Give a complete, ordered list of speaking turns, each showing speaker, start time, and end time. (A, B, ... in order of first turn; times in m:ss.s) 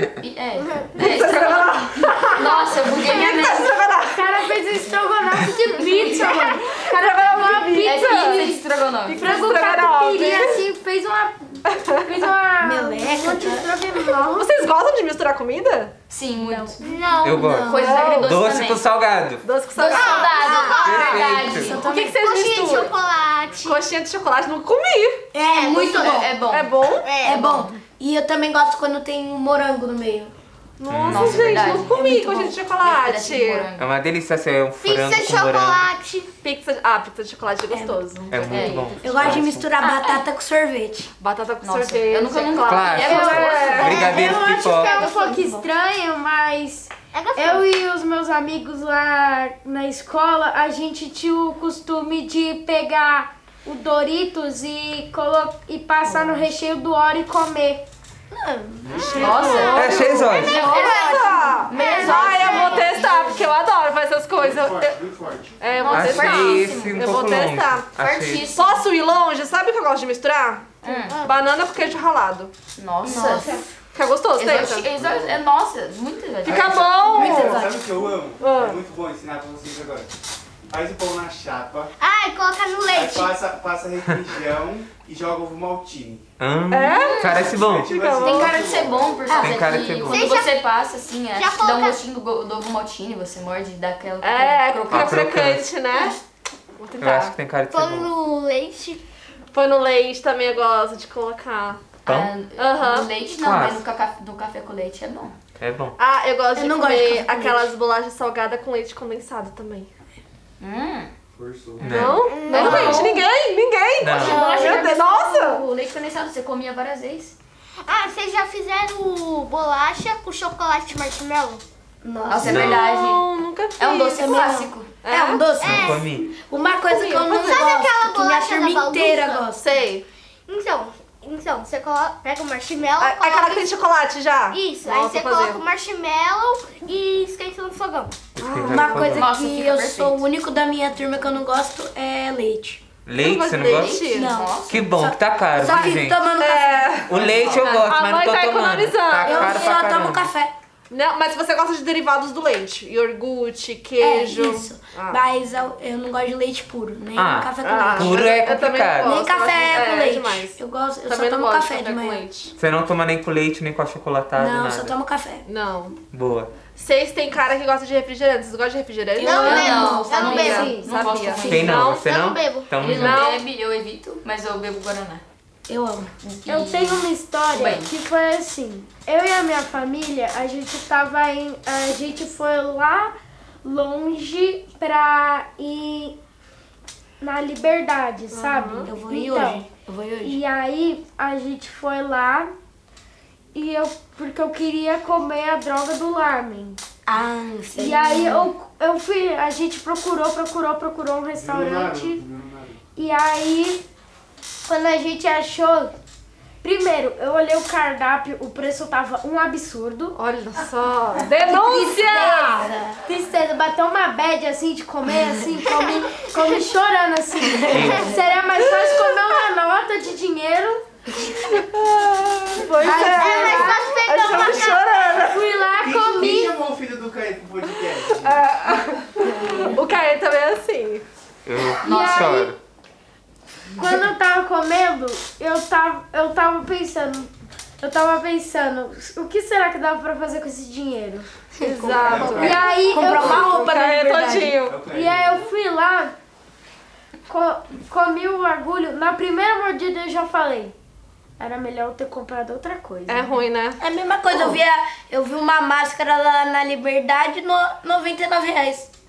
0:00.2-0:03.7 A
0:00.9-0:04.4 B
0:03.1-0:14.5 C
0:06.0-0:10.6 B
0:07.8-0:09.5 A
0:11.7-0:12.2 B
0:12.6-0:13.7 D
0:14.2-0:15.9 B
0:16.1-0:16.8 A
0:16.4-0:16.8 C
0:16.8-0:17.6 E
0:17.2-0:19.4 F
0:17.2-0:17.9 D
0:17.6-0:18.8 A
0:17.8-0:18.3 B
0:19.4-0:23.0 B
0:19.8-0:21.9 A
0:19.8-0:23.8 E
0:20.8-0:21.8 F
0:21.3-0:22.2 D
0:23.6-0:25.2 B
0:25.3-0:26.4 D
0:25.5-0:26.3 E
0:25.7-0:26.7 A
0:26.5-0:27.2 B
0:27.0-0:27.5 E
0:27.2-0:27.7 A
0:27.2-0:30.3 D
0:30.8-0:33.7 B
0:30.9-0:31.8 F
0:31.0-0:32.2 A
0:31.6-0:32.6 D
0:32.8-0:33.9 A
0:33.8-0:35.9 F
0:34.8-0:36.3 E
0:36.4-0:39.3 B
0:37.7-0:38.1 D
0:38.3-0:39.7 F
0:38.4-0:40.2 A
0:39.0-0:41.1 D
0:41.2-0:44.3 B
0:41.6-0:44.0 A
0:42.6-0:45.0 F
0:43.0-0:57.8 C
0:44.2-0:45.4 E
0:45.2-0:45.6 A
0:47.1-0:47.7 E
0:58.3-1:00.0 D
0:58.8-0:59.7 G
0:59.1-1:03.4 A
0:59.5-1:05.0 B
0:59.7-1:00.7 F
1:00.2-1:03.0 E
1:02.5-1:03.0 G
1:04.4-1:05.6 G
1:05.6-1:07.9 B
1:05.8-1:07.2 A
1:05.9-1:08.5 F
1:08.0-1:08.8 A
1:08.4-1:12.5 B
1:10.8-1:11.3 A
1:10.9-1:11.3 E
1:12.8-1:13.5 A
1:13.0-1:13.7 D
1:13.9-1:14.9 B
1:14.4-1:17.2 A
1:14.9-1:15.4 G
1:16.4-1:17.6 B
1:16.4-1:20.1 G
1:17.0-1:18.0 D
1:18.4-1:18.8 B
1:20.7-1:21.9 G
1:22.0-1:23.4 E
1:22.9-1:26.2 G
1:26.4-1:28.0 F
1:26.7-1:27.3 B
1:26.8-1:27.4 A
1:27.2-1:29.4 G
1:27.8-1:28.5 B
1:28.1-1:35.1 A
1:29.3-1:30.3 F
1:29.4-1:30.6 E
1:31.3-1:32.0 E
1:34.2-1:36.2 B
1:34.9-1:35.7 F
1:35.8-1:36.2 A
1:36.8-1:37.3 B
1:37.0-1:38.1 F
1:37.7-1:39.0 E
1:39.5-1:41.8 B
1:42.0-1:42.3 F
1:42.1-1:45.4 A
1:42.6-1:43.1 B
1:43.4-1:43.8 F
1:45.6-1:46.0 F
1:46.0-1:49.9 B
1:46.6-1:47.7 D
1:50.6-1:51.1 A
1:51.4-1:52.0 G
1:51.8-1:53.3 A
1:51.8-1:53.1 F
1:51.9-1:55.7 B
1:52.2-1:52.7 E
1:54.0-1:54.4 F
1:54.1-1:57.4 A
1:54.4-1:54.9 D
1:57.8-2:01.6 E
2:02.0-2:02.7 D
2:02.3-2:03.2 A
2:02.4-2:02.8 F
2:02.7-2:04.3 B
2:03.8-2:04.9 A
2:04.0-2:09.6 D
2:05.0-2:05.5 B
2:05.6-2:06.0 E
2:05.6-2:06.3 F
2:06.6-2:09.5 E
2:07.0-2:07.7 B
2:09.6-2:10.1 B
2:10.5-2:13.9 E
2:13.0-2:15.6 B
2:14.5-2:18.1 E
2:18.4-2:19.3 F
2:18.4-2:19.1 B
2:18.4-2:22.8 D
2:19.0-2:20.2 A
2:23.1-2:24.0 F
2:23.2-2:24.3 B
2:23.6-2:24.8 A
2:23.9-2:27.6 D
2:24.7-2:26.3 F
2:26.3-2:29.7 B
2:27.1-2:30.3 F
2:29.2-2:30.5 D
2:30.9-2:35.2 B
2:34.0-2:38.3 D
2:37.2-2:39.2 F
2:37.6-2:42.5 B
2:39.0-2:42.3 D
2:42.6-2:45.0 F
2:44.4-2:45.4 D
2:45.5-2:46.0 B
2:46.1-2:46.5 F
2:46.8-2:52.0 B
2:49.2-2:50.4 D
2:49.2-2:50.8 E
2:49.3-2:51.9 A
2:50.2-2:50.9 C
2:51.4-2:53.3 F
2:52.0-2:52.7 E
2:52.8-2:55.2 A
2:52.9-2:53.4 B
2:55.7-2:56.1 D
2:56.2-2:57.9 A
2:56.5-3:06.2 C
3:07.2-3:09.6 C
3:08.3-3:08.9 B
3:08.8-3:10.4 D
3:10.2-3:12.5 C
3:13.5-3:16.8 C
3:17.1-3:18.5 D
3:17.8-3:22.2 C
3:21.3-3:22.8 G
3:23.0-3:23.8 C
3:24.6-3:25.9 C
3:26.6-3:30.2 C
3:30.2-3:32.7 B
3:31.5-3:40.8 C
3:31.5-3:33.0 D
3:37.6-3:38.2 D
3:37.7-3:38.1 F
3:41.6-3:45.4 B
3:42.8-3:43.7 D
3:43.2-3:45.2 E
3:45.2-3:46.6 C
3:45.8-3:48.5 G
3:48.0-3:51.0 B
3:51.5-3:52.6 F
3:51.8-3:52.3 A
3:51.8-3:52.5 C
3:53.8-4:01.3 C
4:01.6-4:02.8 B
4:01.9-4:03.6 C
4:01.9-4:03.6 G
4:02.8-4:04.6 D
4:03.4-4:04.8 B
4:04.6-4:05.4 G
4:04.9-4:06.1 C
4:07.3-4:10.7 C
4:11.4-4:13.4 C
4:13.1-4:13.8 B
4:13.8-4:18.9 D
4:14.3-4:14.6 B